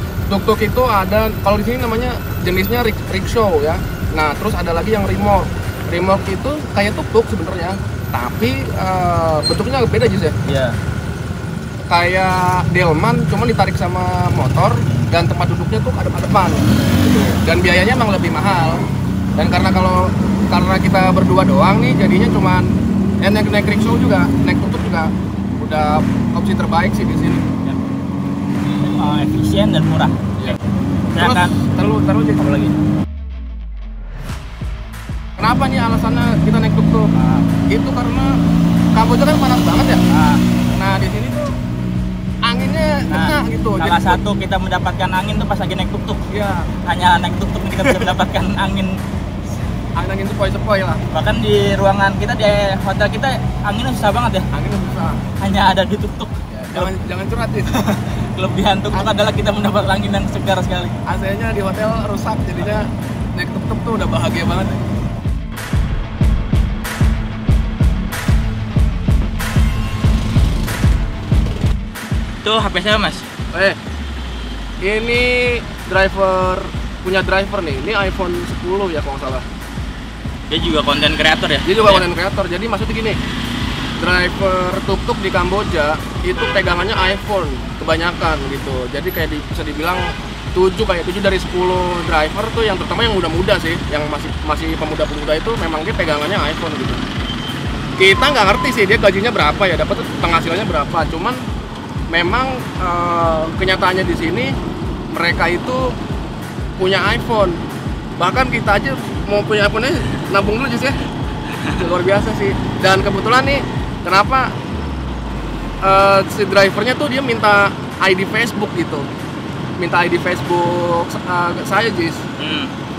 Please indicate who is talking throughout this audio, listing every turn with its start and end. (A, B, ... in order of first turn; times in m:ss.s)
0:00.3-0:10.4 A
0:10.4-0:10.8 B
0:11.9-0:18.8 A
0:19.4-0:27.4 A
0:28.8-0:30.6 B
0:31.1-0:31.6 B
0:31.2-0:32.4 A
0:32.4-0:32.8 B
0:35.4-0:37.1 A
0:37.1-0:37.5 B
0:37.7-0:38.4 A
0:38.9-0:40.0 A
0:40.1-0:40.4 B
0:40.7-0:41.5 A
0:42.4-0:44.2 A
0:43.1-0:46.2 B
0:46.3-0:46.7 A
0:46.8-0:49.0 B
0:47.8-0:48.2 A
0:50.0-0:51.0 A
0:51.1-0:54.5 B
0:54.5-0:55.2 A
0:55.4-0:56.9 B
0:56.5-0:57.9 A
0:57.9-1:01.0 B
1:01.1-1:04.8 A
1:12.4-1:13.3 B
1:13.5-1:13.8 A
1:14.8-1:19.4 A
1:20.5-1:22.1 B
1:21.6-1:23.2 A
1:24.0-1:37.0 A
1:38.0-1:41.4 A
1:42.1-1:44.5 A
1:45.1-1:46.0 A
1:46.8-1:47.6 A
1:48.2-1:51.0 A
1:51.7-1:54.5 A
1:55.8-1:59.1 A
1:59.8-2:02.2 A
2:02.4-2:02.7 B